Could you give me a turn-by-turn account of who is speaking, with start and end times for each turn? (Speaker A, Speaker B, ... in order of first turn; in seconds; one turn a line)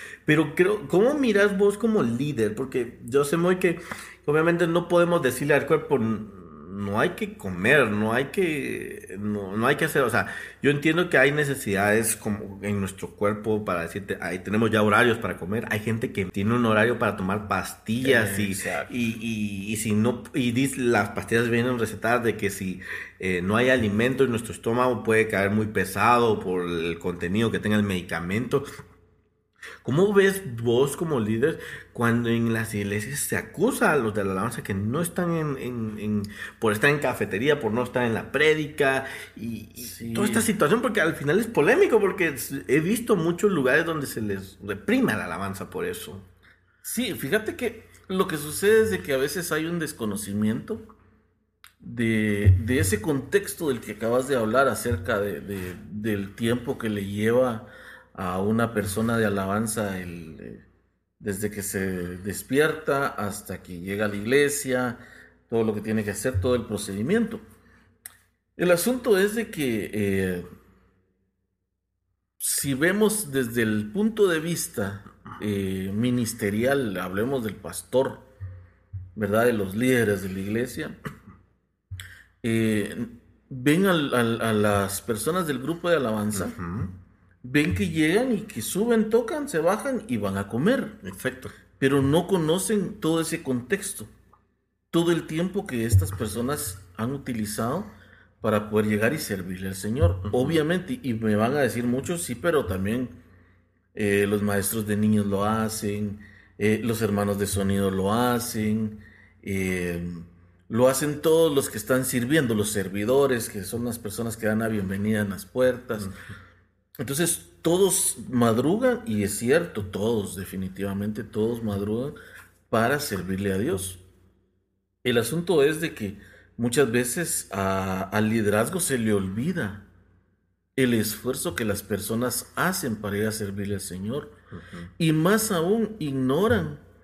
Speaker A: 0.2-28.7
Speaker B: 18.0-18.9
Speaker A: 29.8-46.2
Speaker B: 39.8-40.5
Speaker B: 46.8-50.9
Speaker B: 51.8-60.6
Speaker B: 61.2-67.4
Speaker B: 68.6-70.5
Speaker B: 72.4-78.3
Speaker B: 79.2-81.0
Speaker B: 82.4-86.6
Speaker A: 86.3-86.9
Speaker B: 87.4-91.0
Speaker A: 91.0-91.5
Speaker B: 91.8-94.1
Speaker B: 94.9-103.2
Speaker A: 100.3-100.5
Speaker B: 103.9-116.1
Speaker B: 117.0-122.2
Speaker B: 122.7-124.0
Speaker B: 125.0-129.8
Speaker B: 130.8-134.3
Speaker A: 134.5-134.9
Speaker B: 135.0-136.8